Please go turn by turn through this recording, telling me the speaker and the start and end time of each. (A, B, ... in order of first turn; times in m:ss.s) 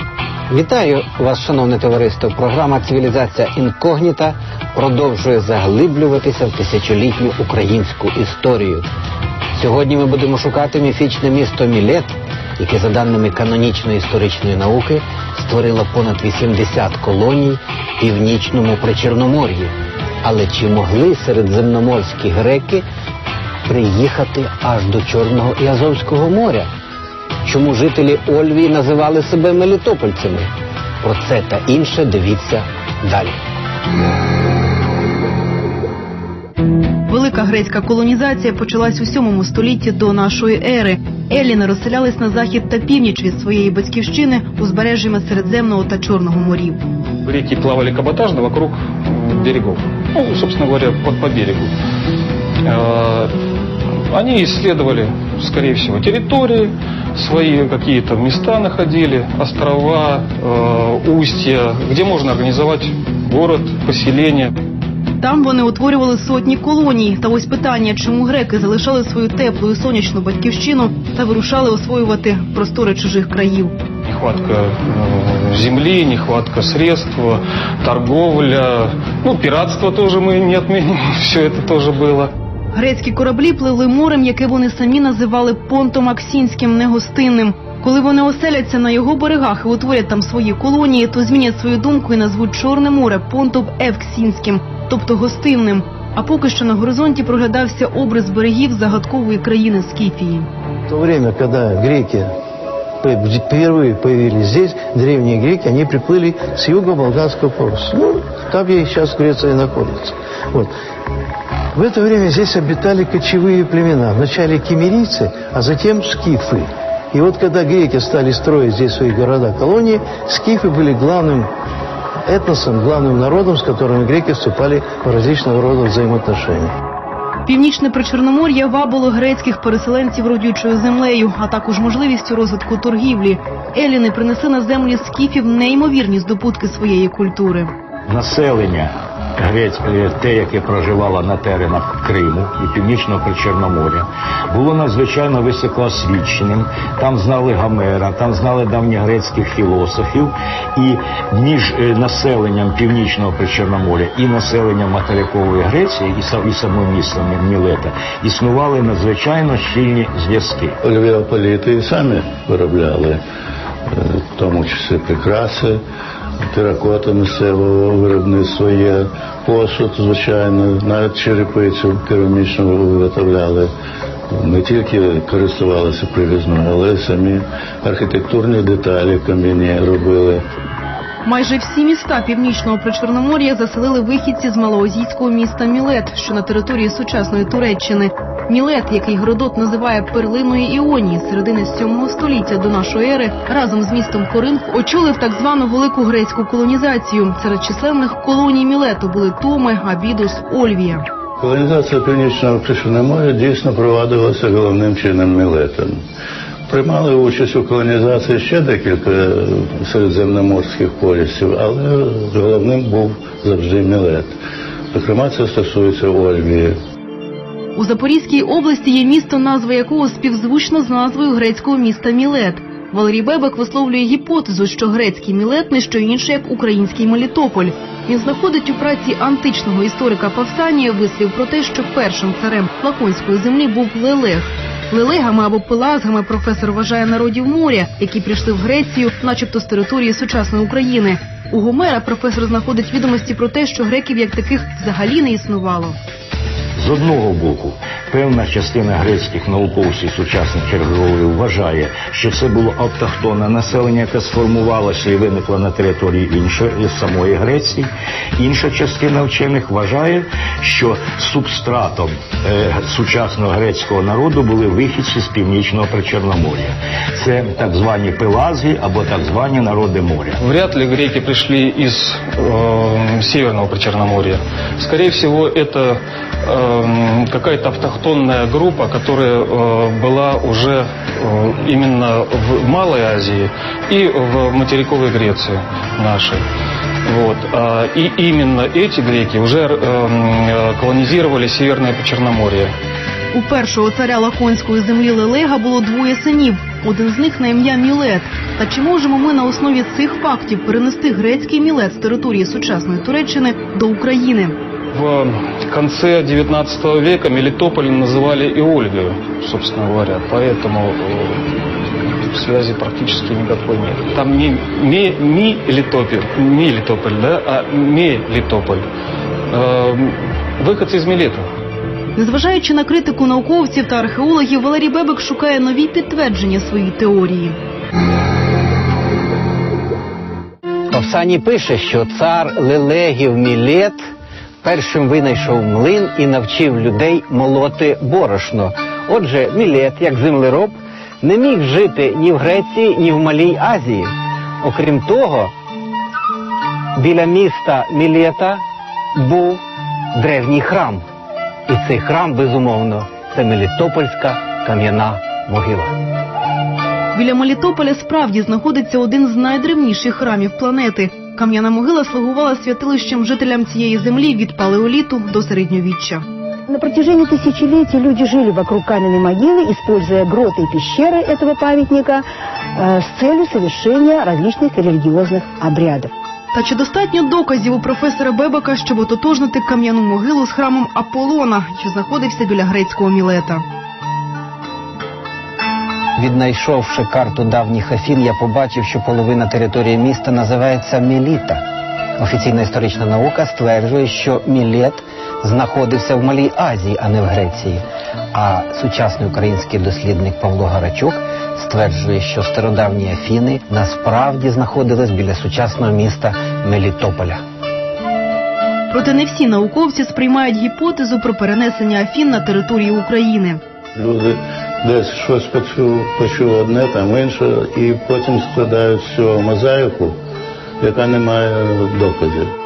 0:00.5-0:08.8 A
0:09.6-0:22.8 A
0:23.6-0:26.7 A
0:27.4-0:30.5 A
0:31.0-0:33.4 A
0:37.1-0:46.8 B
0:47.2-0:51.7 C
0:52.7-0:53.3 C
0:54.1-1:04.5 C
1:05.2-1:13.8 B
1:14.0-1:22.3 C
1:22.7-1:40.5 B
1:40.9-1:42.3 D
1:43.0-1:50.7 D
1:51.7-2:01.5 D
2:02.3-2:06.7 D
2:07.4-2:17.7 B
2:18.1-2:40.8 E
2:40.8-2:43.2 F
2:43.9-2:45.8 F
2:46.5-2:53.7 F
2:54.3-3:00.4 F
3:01.2-3:21.1 B
3:21.4-3:26.0 F
3:26.7-3:34.4 F
3:34.9-3:36.8 F
3:37.8-4:06.0 B
4:06.8-4:30.4 E
4:30.4-4:46.4 C
4:47.1-4:52.7 C
4:53.3-5:04.6 B
5:04.9-5:11.4 C
5:12.3-5:18.9 C
5:19.5-5:21.5 C
5:22.2-5:27.6 B
5:30.9-5:34.0 A
5:34.6-5:45.5 A
5:47.0-5:48.6 A
5:49.2-5:49.6 A
5:50.2-5:51.0 A
5:51.7-5:55.9 A
5:57.1-6:06.2 B
6:06.7-6:12.2 G
6:12.8-6:16.1 G
6:16.5-6:23.6 B
6:26.2-6:31.6 A
6:32.2-6:37.8 A
6:38.3-6:47.4 A
6:48.9-6:53.6 B
6:53.9-7:00.2 F
7:00.8-7:02.5 F